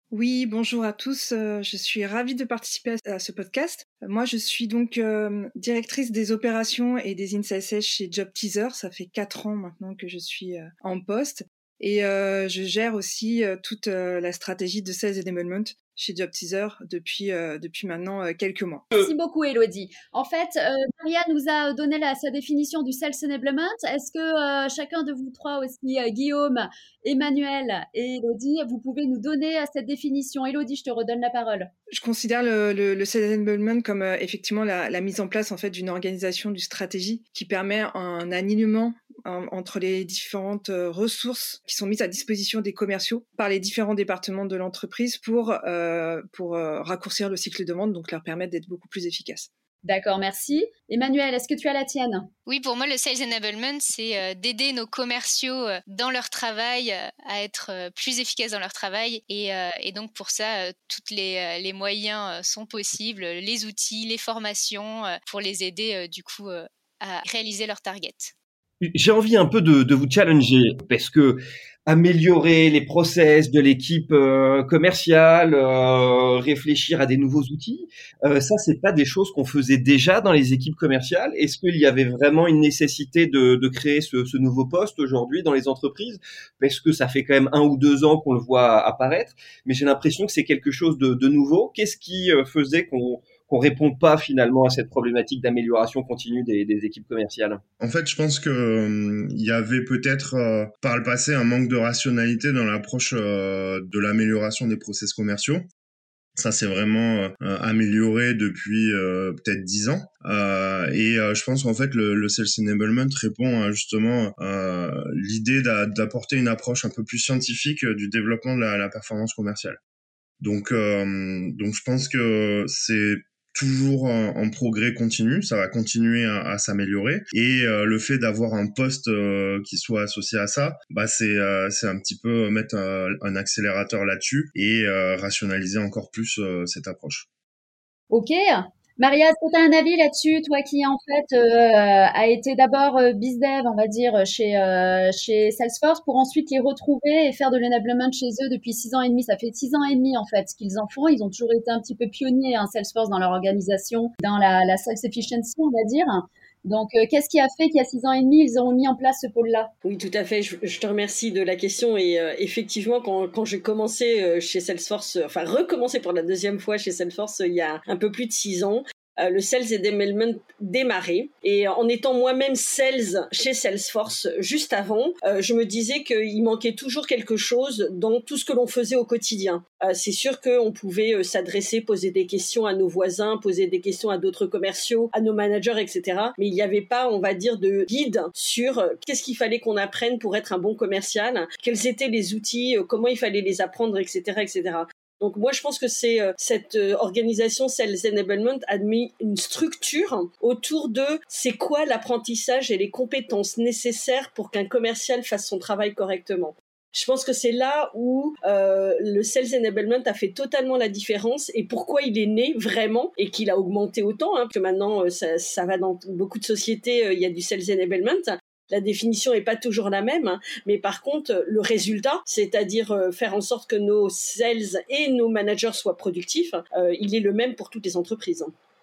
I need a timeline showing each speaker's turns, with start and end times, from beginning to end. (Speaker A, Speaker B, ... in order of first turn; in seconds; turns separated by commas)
Speaker A: 0.1-18.9, Speaker B: 18.9-31.7, Speaker A: 31.9-49.5, Speaker B: 49.8-52.3, Speaker C: 52.5-68.3, Speaker D: 68.8-97.6, Speaker E: 97.8-105.7, Speaker E: 106.3-119.8, Speaker E: 120.4-137.3, Speaker B: 138.1-159.7, Speaker F: 159.8-228.5